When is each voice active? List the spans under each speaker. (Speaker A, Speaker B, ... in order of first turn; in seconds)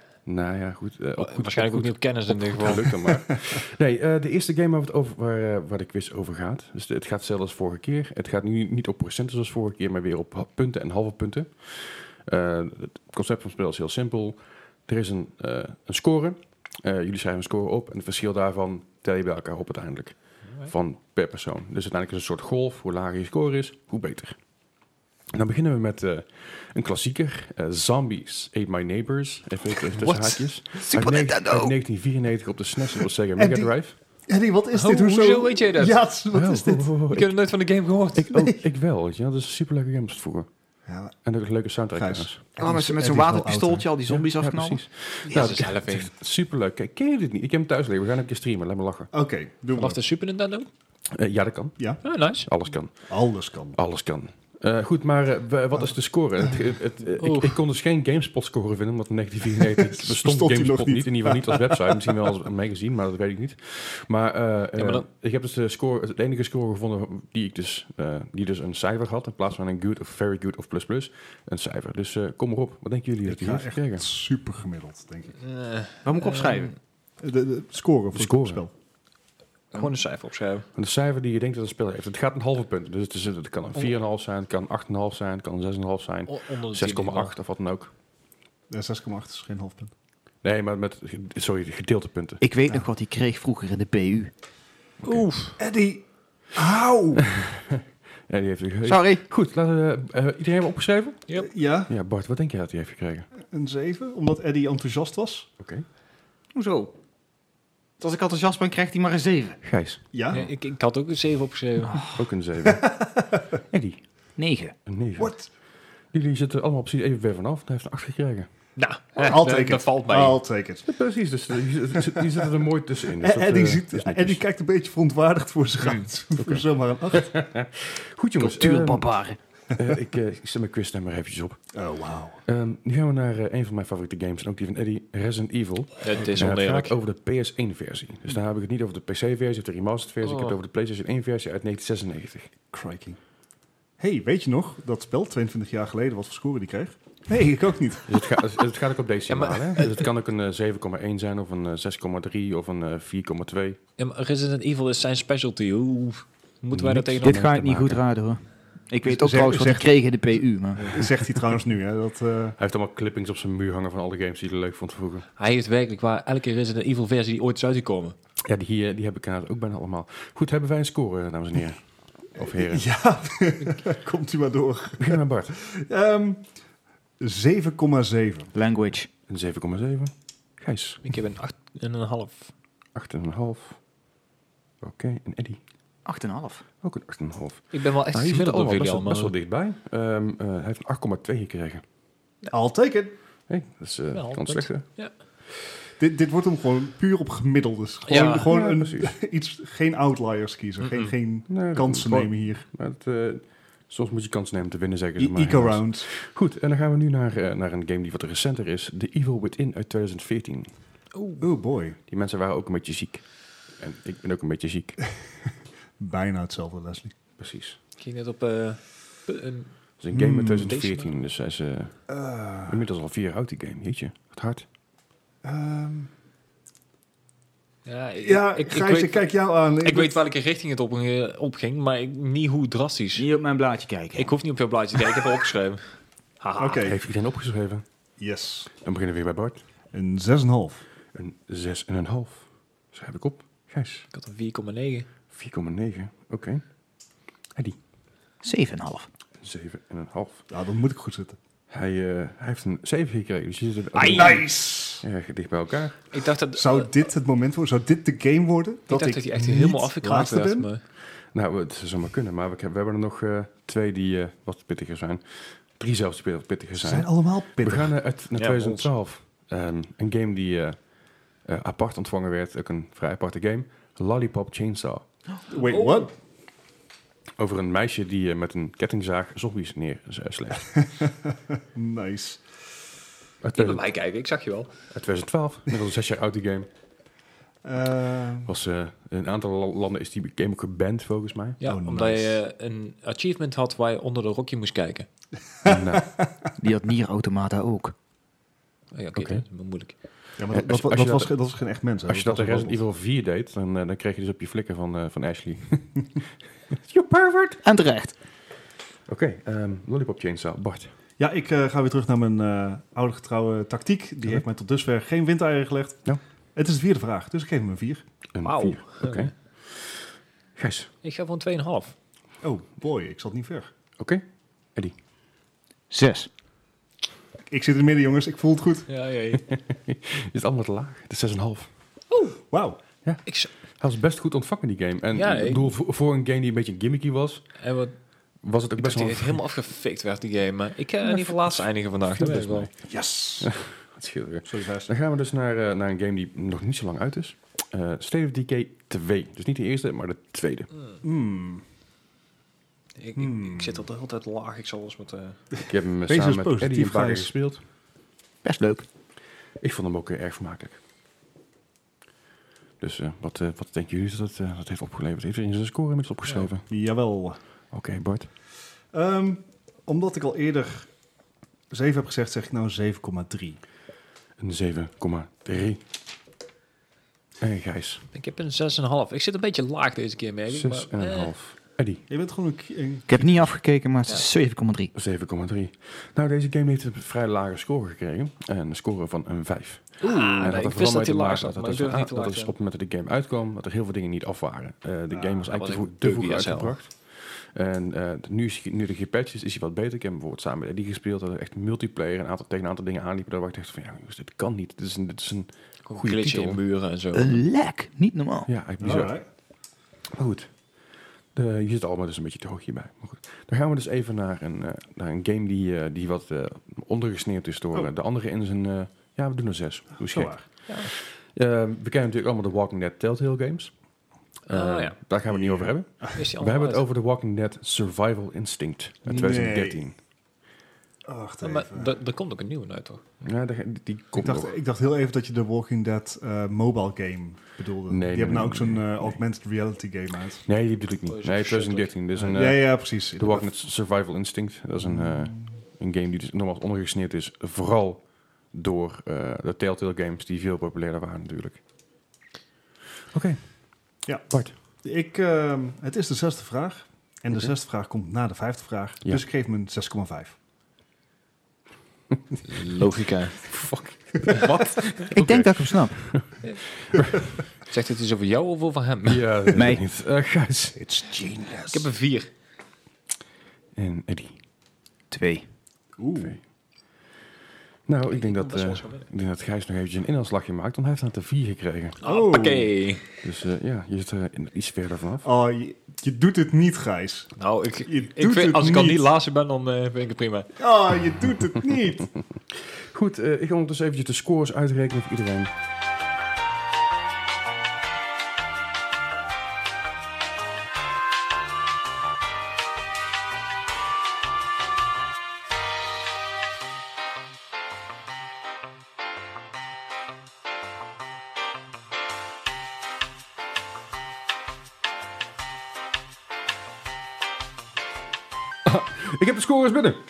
Speaker A: 0.3-24.4, 25.3-33.9, 36.3-37.4, 38.1-40.5, 41.2-42.4, 44.1-49.1, 51.1-53.1, 53.7-74.1, 78.1-78.6, 80.8-87.9, 90.4-92.4, 97.3-101.2, 101.9-103.3, 105.6-105.8, 109.6-110.0, 112.1-112.9, 113.7-114.0, 114.9-115.5, 116.1-118.5, 120.9-124.4, 126.4-129.1, 129.7-131.7, 132.4-142.5, 148.1-153.8, 156.7-158.0, 162.6-165.3, 168.4-172.9, 175.0-175.6, 179.3-181.0, 182.9-183.8, 184.8-185.6, 186.8-191.8, 193.5-194.8, 198.3-199.2, 201.5-210.7, 212.1-213.2, 213.8-215.0, 217.4-217.8, 220.0-222.1, 222.7-224.7, 236.8-237.8, 238.8-239.6, 241.1-244.1, 245.3-246.6, 249.4-250.4, 251.7-256.1, 261.3-270.9, 271.4-275.1, 277.4-280.8, 283.4-283.9, 284.9-286.7, 288.5-291.6, 295.6-296.1, 299.1-299.4, 300.5-301.4, 302.1-306.1, 306.7-307.6, 309.1-310.9, 318.3-320.9, 324.0-324.2, 329.3-331.7, 333.1-337.6, 338.4-339.4, 341.0-342.7, 343.4-350.7, 355.7-357.6, 359.6-360.8, 362.8-366.7, 367.7-368.3, 374.4-375.8, 377.4-378.1, 380.5-382.0, 384.9-406.6, 408.5-409.2, 410.1-410.5, 411.3-423.7, 424.5-430.0, 433.2-434.5, 437.9-439.2, 440.5-451.6, 453.1-453.4, 454.3-454.5, 462.1-462.4, 463.4-467.2, 469.0-470.8, 473.8-474.4, 477.9-482.0, 483.2-485.3, 492.6-495.5, 518.7-520.0
Speaker B: 1.2-3.1, 34.7-36.0, 37.1-38.5, 45.3-46.1, 49.7-50.7, 52.0-52.5, 57.2-57.6, 64.8-65.0, 75.4-76.7, 79.7-80.7, 86.3-87.3, 95.0-95.6, 110.3-112.1, 118.8-120.4, 136.0-136.9, 140.2-140.6, 149.3-150.1, 154.0-157.4, 165.4-168.2, 181.0-182.5, 187.7-189.3, 194.1-195.1, 198.1-198.5, 200.8-201.1, 211.1-211.5, 218.0-219.7, 220.6-221.1, 227.9-233.2, 234.2-235.9, 236.4-236.9, 244.1-245.1, 256.1-256.9, 258.9-260.8, 268.4-268.9, 275.6-276.1, 283.6-284.7, 291.6-295.1, 298.9-299.9, 318.4-319.3, 321.0-321.9, 328.9-329.4, 332.1-332.4, 333.3-333.5, 335.1-335.7, 337.6-337.9, 338.8-342.7, 353.0-355.4, 378.1-381.3, 390.0-392.5, 395.4-396.8, 405.9-407.4, 424.5-425.0, 426.1-426.8, 431.4-433.1, 441.1-441.9, 462.4-463.4, 467.6-469.3, 471.7-472.3, 478.1-479.1, 482.0-483.2, 487.4-490.6
Speaker C: 29.9-31.8, 42.6-45.5, 76.0-76.7, 92.4-94.3, 98.8-99.2, 106.5-106.9, 108.0-109.6, 114.4-114.8, 128.4-129.4, 157.2-161.4, 178.5-179.1, 186.1-186.7, 233.2-234.4, 248.4-249.1, 296.6-297.9, 307.6-308.1, 325.9-326.3, 358.4-358.9, 383.1-384.9, 407.1-408.5, 465.1-466.0, 469.5-469.8, 471.2-471.7, 475.1-475.5
Speaker D: 33.4-33.8, 34.3-36.9, 40.9-41.1, 41.9-43.9, 49.1-50.0, 53.1-53.8, 59.7-62.1, 73.2-75.4, 77.2-78.7, 88.7-89.9, 95.6-97.3, 101.4-101.9, 103.5-105.5, 110.1-110.5, 112.6-113.4, 115.2-115.5, 119.2-120.9, 121.9-122.5, 123.1-127.4, 131.7-132.4, 142.7-143.2, 144.0-148.2, 159.1-162.6, 172.5-176.5, 177.2-178.5, 192.5-193.1, 196.0-202.6, 205.2-206.1, 211.4-212.0, 216.0-217.2, 220.1-220.8, 222.1-222.8, 225.4-226.1, 228.2-230.2, 236.6-237.0, 238.2-238.7, 239.9-240.8, 250.5-251.4, 253.9-255.1, 256.5-260.7, 266.8-268.0, 275.5-276.1, 280.8-282.5, 287.6-288.5, 291.6-292.4, 295.6-296.2, 300.4-302.8, 311.2-318.0, 322.4-323.7, 327.5-328.9, 332.5-332.8, 342.9-343.5, 344.5-344.9, 351.0-351.6, 353.2-353.9, 356.1-357.3, 366.7-367.4, 368.9-370.9, 371.7-373.6, 382.1-383.5, 390.0-390.6, 395.1-395.5, 408.8-409.2, 420.0-420.4, 425.3-426.2, 429.1-429.9, 431.1-431.9, 434.2-440.4, 442.2-443.5, 444.8-445.5, 454.8-460.4, 470.9-471.7, 476.0-476.4, 482.0-482.7, 485.2-487.3, 487.9-489.0, 490.6-492.1